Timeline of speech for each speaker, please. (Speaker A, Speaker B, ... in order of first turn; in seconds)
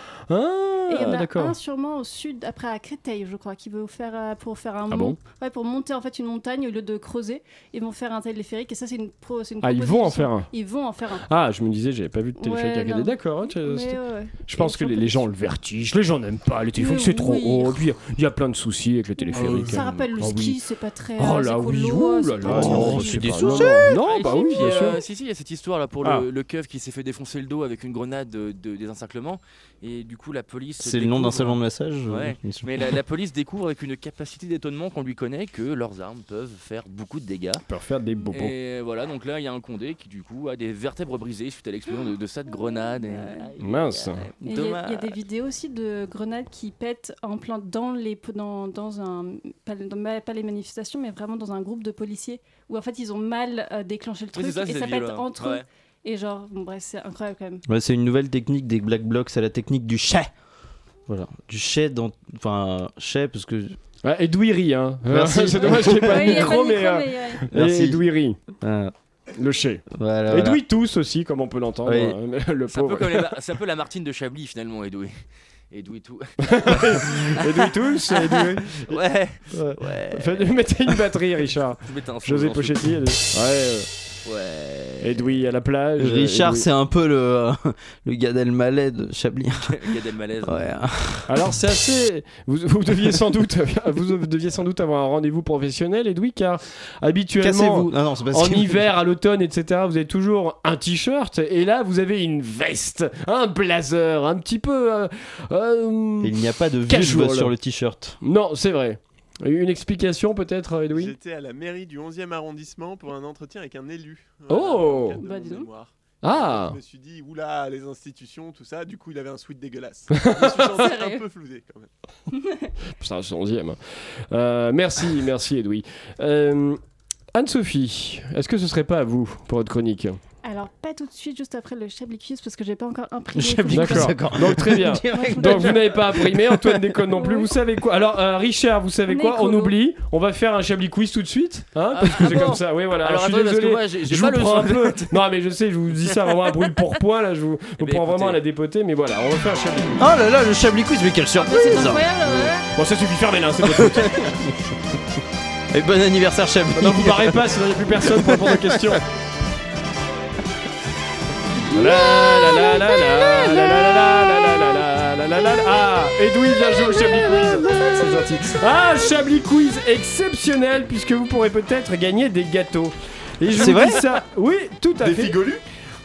Speaker A: 0.3-1.6, 4.9-5.2, 9.6-10.5, 11.2-20.6, 21.2-25.0, 37.7-38.5, 43.6-44.2, 64.0-68.4, 69.4-73.3, 76.4-79.0, 79.5-83.9, 85.0-86.7, 91.3-106.4, 106.9-107.5, 108.2-111.1, 114.5-115.2, 116.2-116.8, 120.1-120.9, 123.0-123.8, 124.3-126.8, 127.3-130.2, 133.7-150.0, 152.7-154.3, 156.8-159.0, 161.7-175.4
Speaker B: 0.9-11.2, 12.4-15.3, 16.8-17.9, 19.2-24.8, 42.5-43.5, 44.4-57.6, 65.6-67.4, 115.2-115.7, 120.8-121.2, 122.3-122.6, 130.4-134.2, 135.1-136.0, 137.1-137.5, 139.1-139.8, 151.4-152.7, 161.8-162.7, 167.1-168.0
Speaker C: 19.4-19.9, 22.4-23.9, 30.8-33.0, 57.6-60.3, 61.1-63.8, 65.1-66.5, 67.5-68.0, 68.6-68.9, 69.9-70.6, 71.9-72.2, 86.0-91.3, 97.4-98.8, 106.2-108.2, 133.3-136.8, 150.0-152.4, 153.7-154.3, 155.7-157.5, 158.0-158.8, 173.5-174.1
Speaker D: 24.1-37.6, 38.3-45.2, 54.3-55.6, 72.7-77.6, 78.1-80.5, 81.8-82.9, 84.2-85.2, 89.6-90.8, 141.9-145.2, 147.8-148.4
Speaker E: 110.9-121.9, 175.0-175.6